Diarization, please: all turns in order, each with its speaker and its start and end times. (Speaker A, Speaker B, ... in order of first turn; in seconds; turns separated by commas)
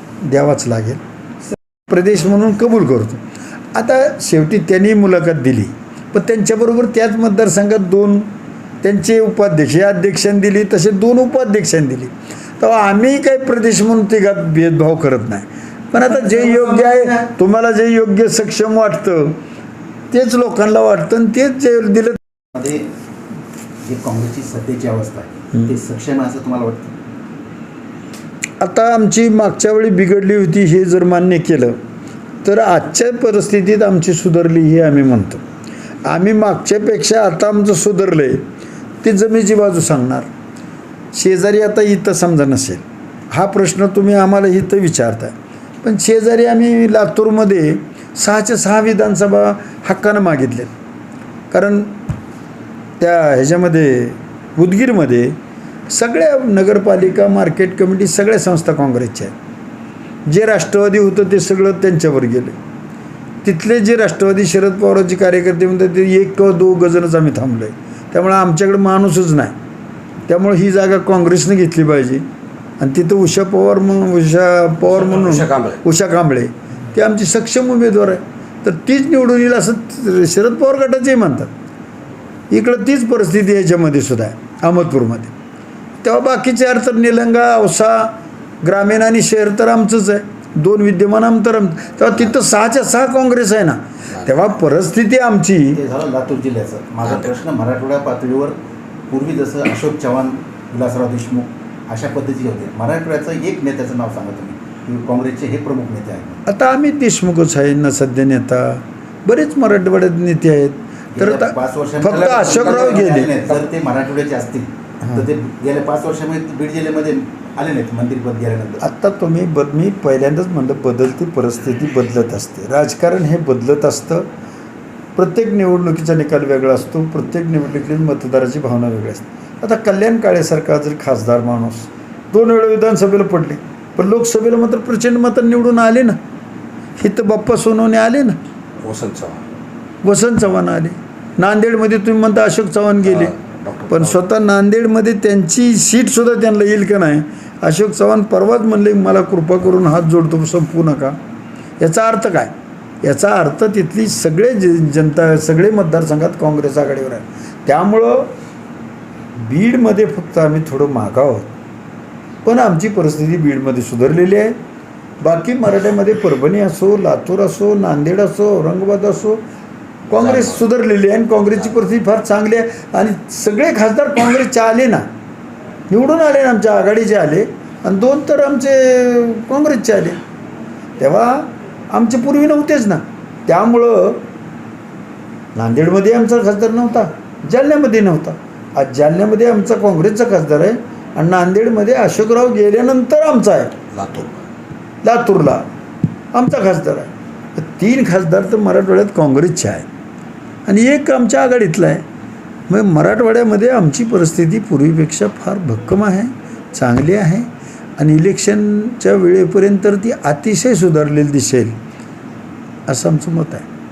Speaker A: 0.2-1.0, Speaker A: 1.6-3.2, Speaker A: 3.7-8.3, Speaker A: 8.8-19.4, Speaker A: 20.1-22.2, Speaker B: 22.6-22.9, Speaker B: 23.8-26.9, Speaker A: 28.6-31.8, Speaker A: 32.4-35.4, Speaker A: 36.1-38.5, Speaker A: 39.0-40.3, Speaker A: 41.1-50.7, Speaker A: 51.5-52.0, Speaker A: 53.0-55.4, Speaker A: 55.9-59.3, Speaker A: 60.3-62.6, Speaker A: 63.4-69.5, Speaker A: 70.3-72.2, Speaker A: 72.8-81.5, Speaker C: 75.0-75.8, Speaker A: 82.5-85.3, Speaker A: 86.0-95.8, Speaker B: 95.8-98.6, Speaker B: 99.1-106.4, Speaker A: 106.5-113.3, Speaker B: 111.2-118.8, Speaker C: 112.3-113.1, Speaker A: 118.8-124.3, Speaker A: 125.2-136.2, Speaker A: 137.0-138.4, Speaker C: 138.8-139.4, Speaker A: 140.0-143.4, Speaker C: 143.1-144.1, Speaker A: 143.9-151.2, Speaker A: 151.8-152.5, Speaker A: 153.0-158.3, Speaker A: 159.4-161.5, Speaker A: 162.4-164.6, Speaker A: 165.2-169.4, Speaker A: 170.1-175.1, Speaker C: 170.1-170.5, Speaker A: 175.9-180.2, Speaker A: 181.0-184.2, Speaker A: 185.6-193.8, Speaker C: 193.9-194.4, Speaker A: 195.0-195.7, Speaker A: 196.3-199.9, Speaker A: 200.7-202.0, Speaker A: 202.7-211.8, Speaker A: 212.9-213.7